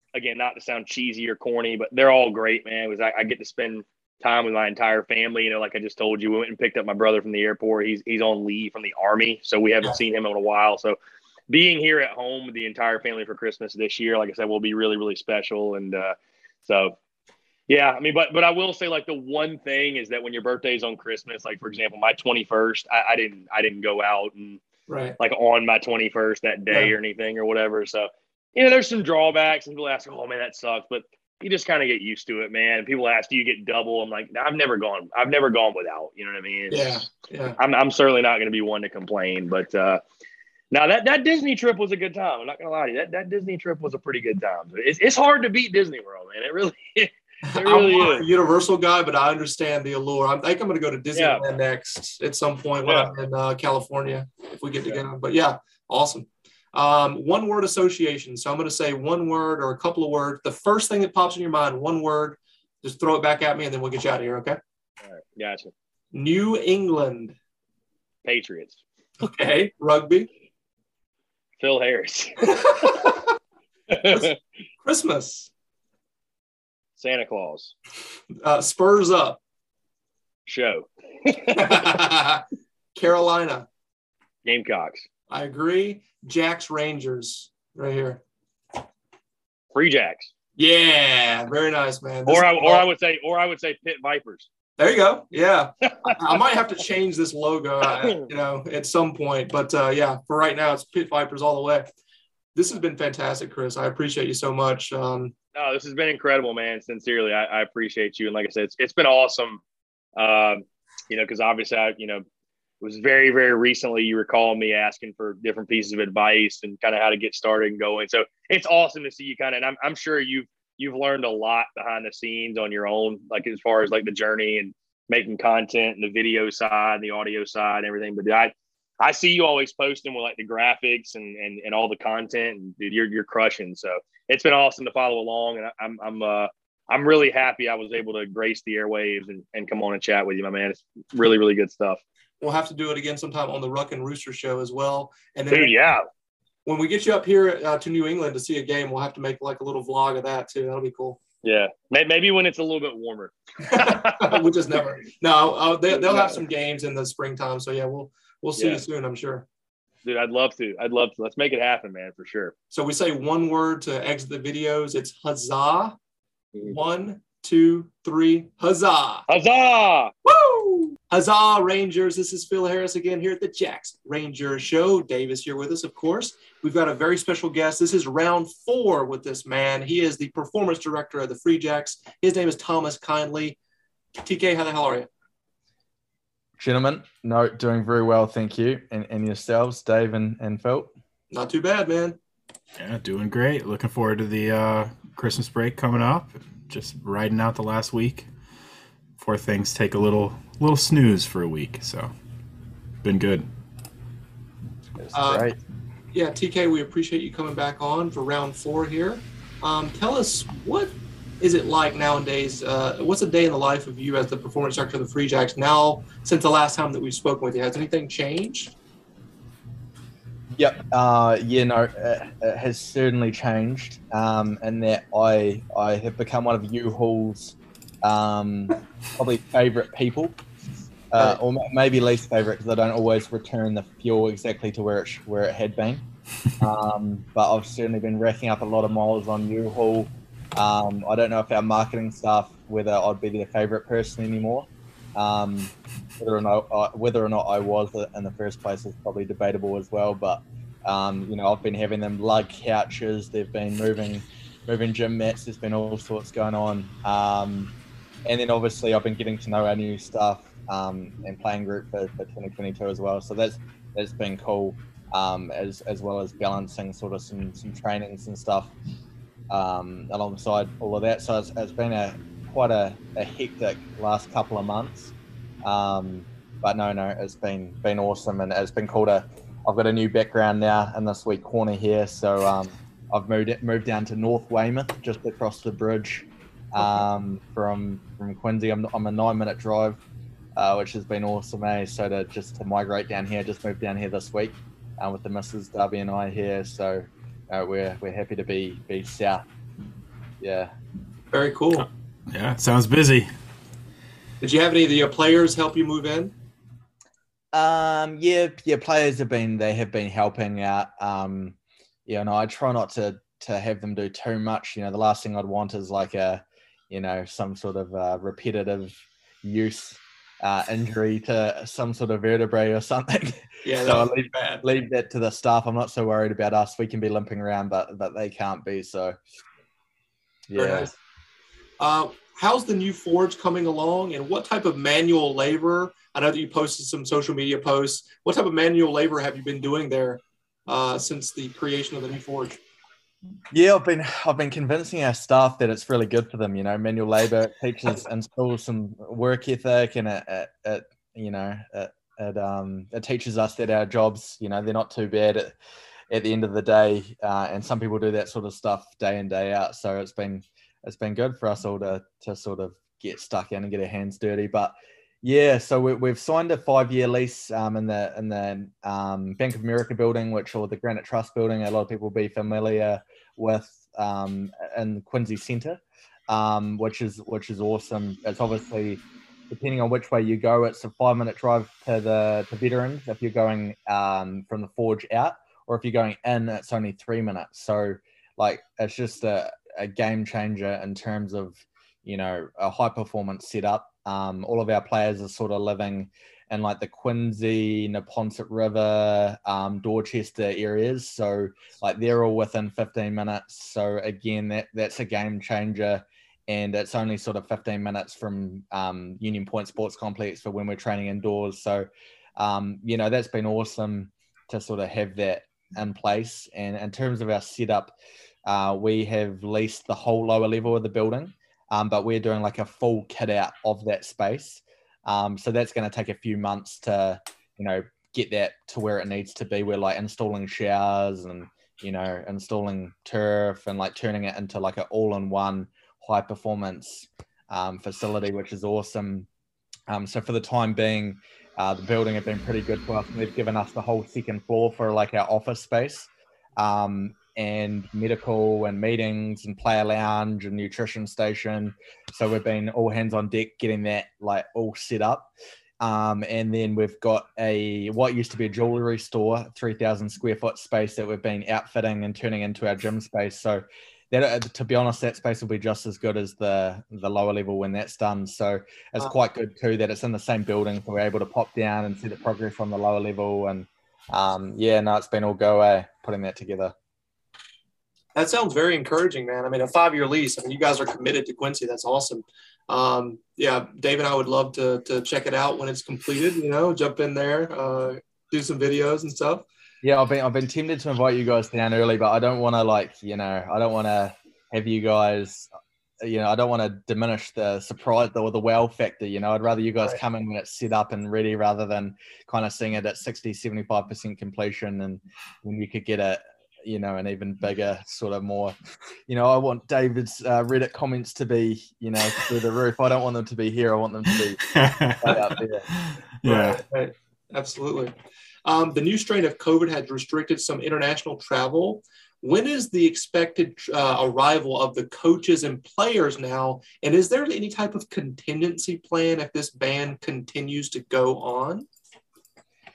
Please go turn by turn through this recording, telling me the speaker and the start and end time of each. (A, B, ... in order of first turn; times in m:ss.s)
0:00.2-0:11.0 A
0:11.5-0:17.0 A
0:17.7-0:24.6 A
0:24.9-0:25.2 B
0:25.2-0:40.0 A
0:36.7-0:37.6 B
0:40.7-0:48.3 A
0:47.5-1:04.6 B
0:51.1-0:51.4 A
0:52.8-0:53.2 A
1:05.0-1:05.7 A
1:06.1-1:07.4 B
1:08.2-1:08.8 A
1:09.2-1:10.3 B
1:11.6-1:12.5 A
1:12.4-1:13.3 B
1:13.9-1:14.4 A
1:14.0-1:14.3 B
1:14.8-1:15.5 B
1:17.0-1:17.7 A
1:18.4-1:19.4 B
1:20.5-1:22.0 A
1:21.6-1:22.4 B
1:23.0-1:23.7 B
1:24.4-1:25.1 A
1:25.3-1:28.2 B
1:29.7-1:30.3 A
1:30.6-1:32.8 B
1:32.3-1:34.5 A
1:34.8-1:41.9 B
1:42.6-1:45.3 B
1:45.6-1:49.6 A
1:50.2-1:52.2 A
1:52.8-2:22.0 A
2:22.4-2:25.8 B
2:25.5-2:26.1 A
2:26.7-2:31.2 B
2:31.4-2:34.4 A
2:33.7-2:39.4 B
2:36.0-2:36.4 A
2:38.6-2:38.8 A
2:40.0-2:42.5 A
2:42.7-2:46.0 B
2:46.6-2:49.2 B
2:49.3-2:50.1 A
2:50.3-3:03.6 B
3:04.2-3:05.1 B
3:06.6-3:10.9 C
3:11.3-3:12.2 B
3:12.8-3:18.3 D
3:19.2-3:22.1 D
3:23.0-3:23.5 D
3:25.0-3:25.6 C
3:25.1-3:25.5 B
3:26.1-3:38.7 B
3:40.6-3:50.4 C
3:51.1-3:56.0 C
3:56.6-4:17.7 C
4:18.2-4:28.7 C
4:29.5-4:35.1 C
4:35.6-4:50.0 C
4:50.6-4:59.4 C
5:00.4-5:00.7 C
5:01.3-5:01.9 B
5:01.8-5:03.3 D
5:04.4-5:06.3 B
5:07.5-5:11.6 C
5:12.1-5:29.2 C
5:23.6-5:24.6 B
5:30.5-5:30.9 C
5:30.6-5:30.9 B
5:31.8-5:42.6 B
5:43.5-5:55.6 C
5:56.1-6:58.0 C
6:58.5-7:19.3 C
7:19.9-7:56.7 C
7:58.2-8:09.4 B
8:09.8-8:15.5 C
8:16.0-8:28.6 C
8:29.1-8:34.5 C
8:34.2-8:36.6 D
8:35.0-8:35.7 C
8:36.2-8:37.9 B
8:38.4-8:51.7 B